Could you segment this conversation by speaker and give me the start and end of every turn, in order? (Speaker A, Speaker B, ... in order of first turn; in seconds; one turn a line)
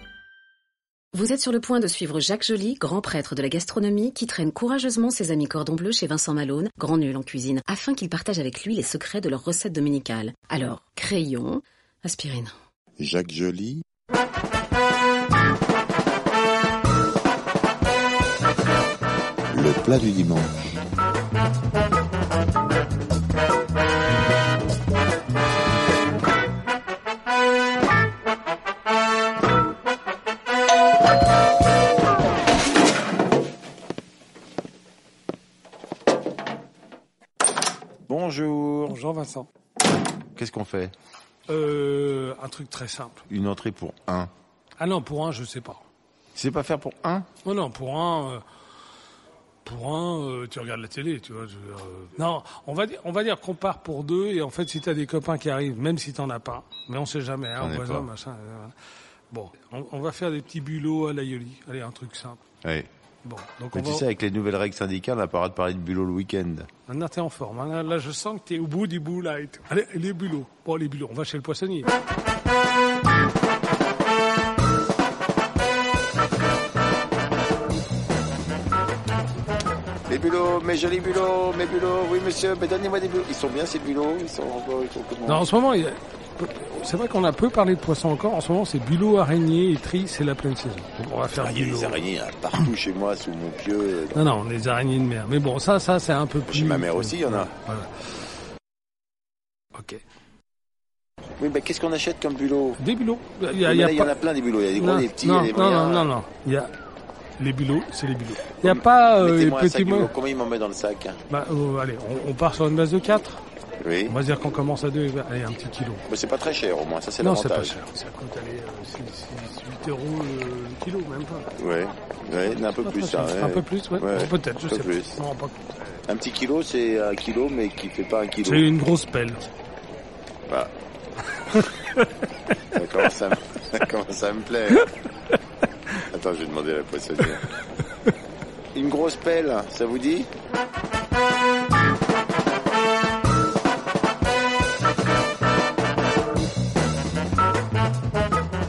Speaker A: 1.1-12.5
Speaker B: 13.0-13.8
Speaker B: 19.5-20.8
Speaker B: 38.1-39.0
Speaker C: 38.9-39.5
Speaker B: 40.3-40.9
Speaker C: 41.5-43.2
Speaker B: 43.3-44.3
Speaker C: 44.8-45.8
Speaker B: 46.3-47.3
Speaker C: 47.4-48.4
Speaker C: 49.6-58.8
Speaker B: 57.6-58.1
Speaker C: 59.3-62.4
Speaker B: 62.6-62.9
Speaker C: 63.2-64.0
Speaker B: 63.7-66.7
Speaker C: 66.9-71.9
Speaker B: 80.1-85.5
Speaker C: 85.2-92.0
Speaker B: 91.3-94.3
Speaker C: 94.1-98.0
Speaker B: 96.5-97.5
Speaker C: 99.7-100.0
Speaker B: 101.4-102.8
Speaker C: 102.8-104.2
Speaker B: 103.5-106.1
Speaker C: 104.7-106.7
Speaker C: 107.4-110.1
Speaker B: 108.6-111.2
Speaker C: 111.3-113.4
Speaker B: 113.8-114.2
Speaker C: 114.1-116.0
Speaker B: 116.1-117.8
Speaker C: 117.2-121.5
Speaker B: 121.6-125.2
Speaker C: 122.8-125.7
Speaker B: 126.0-128.7
Speaker C: 128.4-129.4
Speaker C: 131.5-132.1
Speaker B: 132.7-134.9
Speaker B: 136.1-137.4
Speaker B: 138.7-140.3